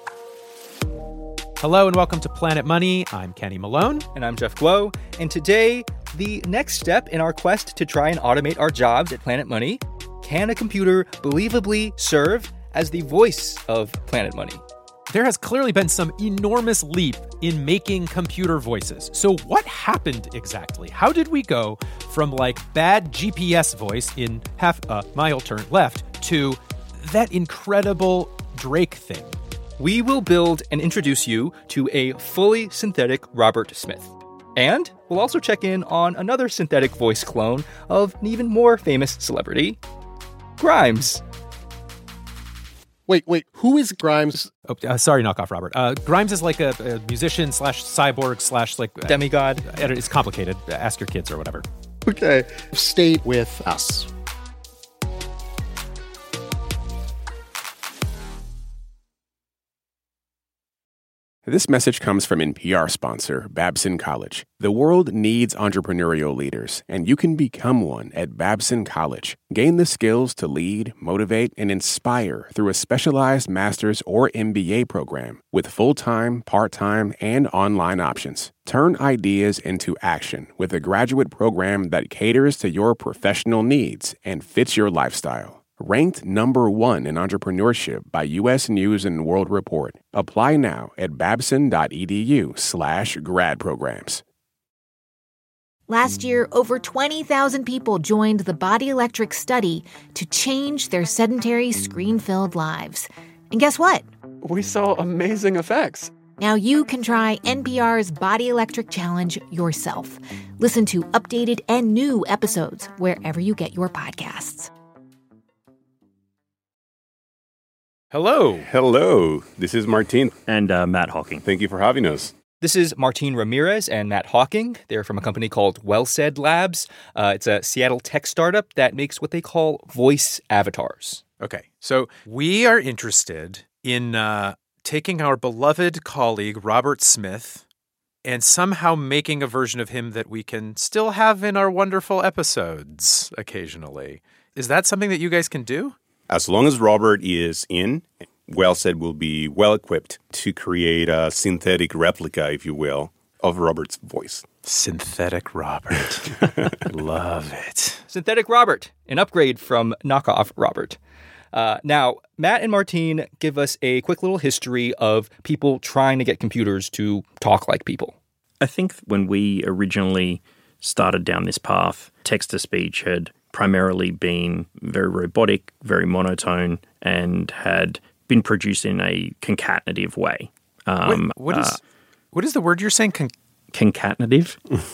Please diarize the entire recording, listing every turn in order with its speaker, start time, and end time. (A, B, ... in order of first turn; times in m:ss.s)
0:01.6-0:04.1 A
0:04.2-0:14.6 B
0:15.1-0:29.4 A
0:29.8-0:39.8 B
0:40.6-0:41.2 B
0:43.1-0:44.5 C
0:44.7-0:51.7 A
0:49.1-0:49.6 B
0:52.1-0:54.1 C
1:01.5-1:34.2 D
1:35.9-1:44.1 E
1:46.4-1:54.7 E
1:58.1-1:58.7 A
1:58.6-2:00.4 F
2:00.5-2:01.4 G
2:01.4-2:02.3 F
2:02.6-2:11.2 B
2:11.4-2:17.6 A
2:18.2-2:26.0 A
2:26.3-2:34.5 F
2:34.6-2:38.0 A
2:38.1-2:41.0 B
2:41.5-2:48.2 B
2:48.6-3:01.8 G
3:01.0-3:01.8 A
3:02.3-3:03.3 A
3:03.7-3:04.6 G